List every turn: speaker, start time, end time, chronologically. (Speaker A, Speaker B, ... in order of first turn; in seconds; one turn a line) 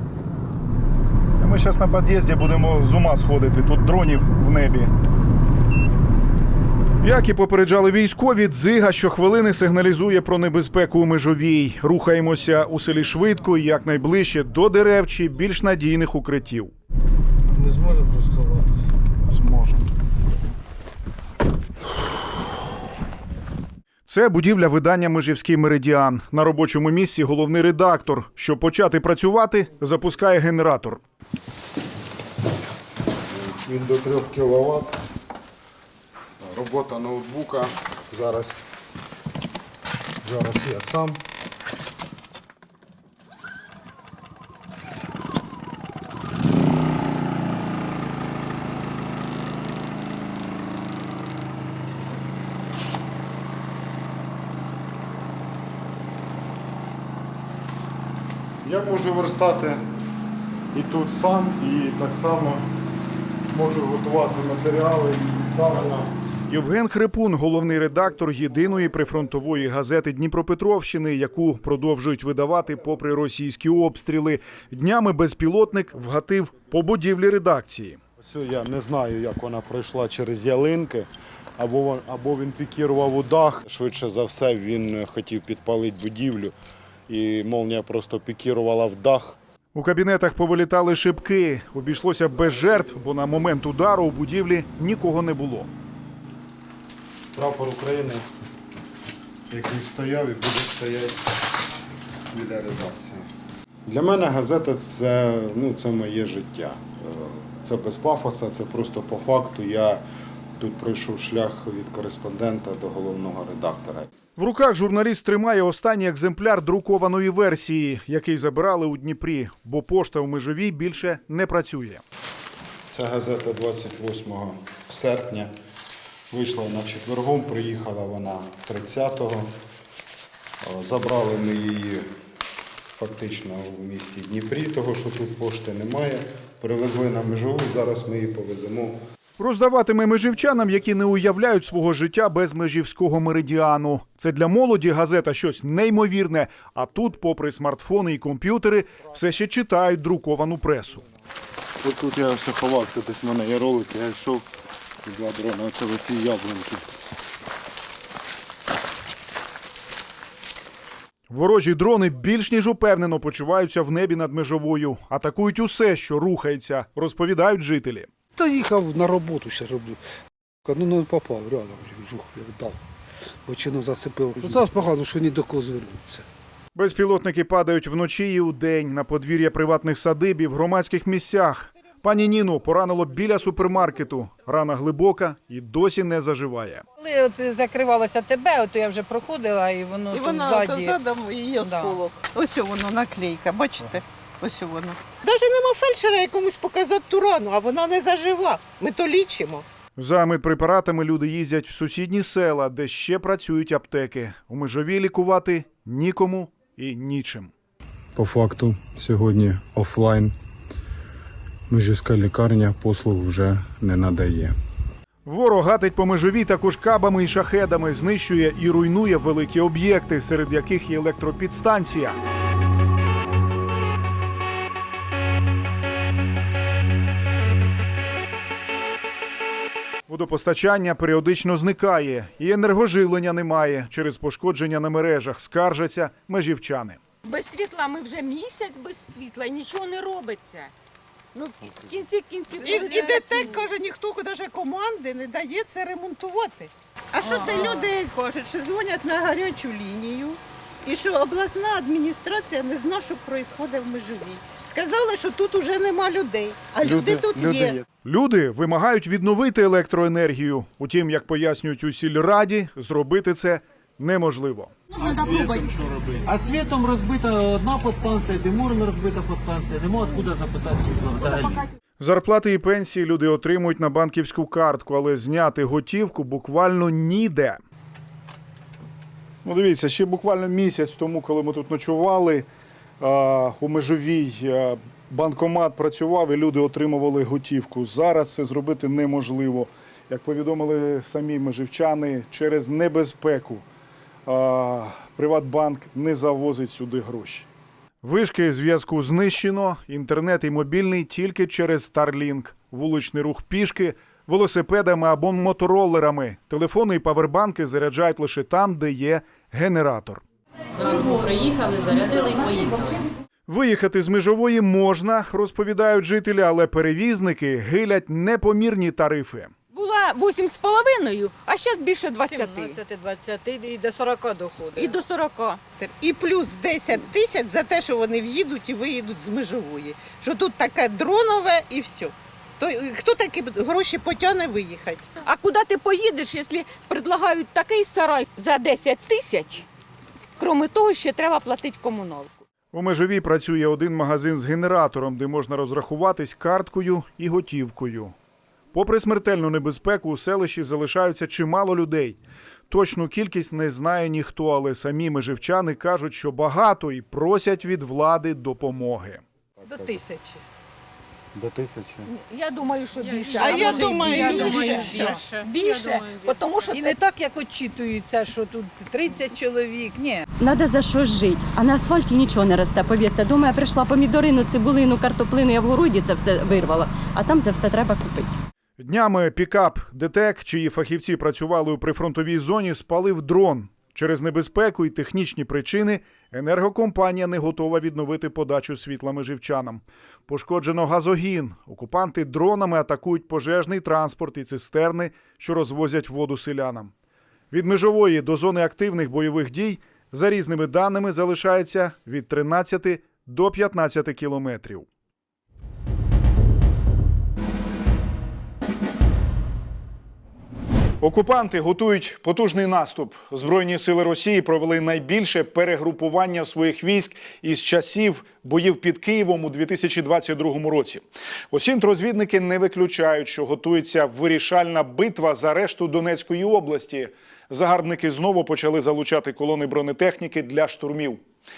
Speaker A: 1.4-4.9
Speaker A: 7.0-16.7
Speaker B: 17.5-18.8
Speaker A: 24.1-31.0
Speaker C: 33.3-35.0
Speaker C: 36.4-38.6
Speaker C: 40.2-41.2
Speaker C: 58.6-59.8
Speaker C: 60.7-62.6
Speaker C: 63.5-66.1
Speaker A: 66.5-78.0
Speaker C: 78.2-86.5
Speaker C: 87.1-89.4
Speaker A: 89.8-95.7
Speaker C: 97.3-98.3
Speaker C: 99.5-101.2
Speaker C: 102.3-103.3
Speaker C: 103.9-110.0
Speaker C: 110.6-114.1
Speaker A: 114.4-122.0
Speaker C: 122.9-125.5
Speaker C: 126.3-129.5
Speaker C: 130.6-132.1
Speaker C: 132.9-139.0
Speaker A: 139.4-151.0
Speaker C: 151.8-154.5
Speaker C: 155.0-156.9
Speaker A: 161.3-168.1
Speaker B: 168.4-170.0
Speaker B: 170.7-172.8
Speaker B: 173.5-176.3
Speaker A: 176.8-186.8
Speaker D: 187.0-191.0
Speaker E: 190.1-199.7
Speaker D: 191.6-192.0
Speaker A: 200.0-207.5
Speaker C: 208.2-210.3
Speaker C: 211.7-214.5
Speaker A: 215.3-222.2
Speaker A: 230.1-237.0
Speaker F: 237.2-240.7
Speaker C: 241.3-241.9
Speaker F: 241.8-243.6
Speaker E: 242.6-257.8
Speaker F: 247.4-247.8
Speaker D: 247.4-247.8
Speaker C: 256.8-257.8
Speaker A: 258.0-264.7
Speaker G: 265.0-271.6
Speaker A: 272.0-277.6
Speaker A: 279.4-282.5
Speaker A: 283.0-293.7
Speaker A: 294.3-297.5
Speaker A: 298.0-310.2
Speaker F: 310.7-313.0
Speaker A: 313.5-319.5
Speaker F: 319.7-322.8
Speaker D: 322.3-324.9
Speaker F: 324.8-325.6
Speaker E: 325.8-335.1
Speaker F: 335.2-339.7
Speaker F: 340.4-342.4
Speaker A: 342.7-348.2
Speaker A: 348.7-359.2
Speaker C: 359.6-360.0
Speaker D: 359.6-360.4
Speaker C: 361.3-362.1
Speaker F: 362.1-367.0
Speaker D: 363.0-366.1
Speaker E: 363.4-365.1
Speaker D: 366.7-370.3
Speaker H: 370.4-378.4
Speaker A: 378.8-396.9
Speaker A: 397.5-404.9
Speaker A: 411.0-431.2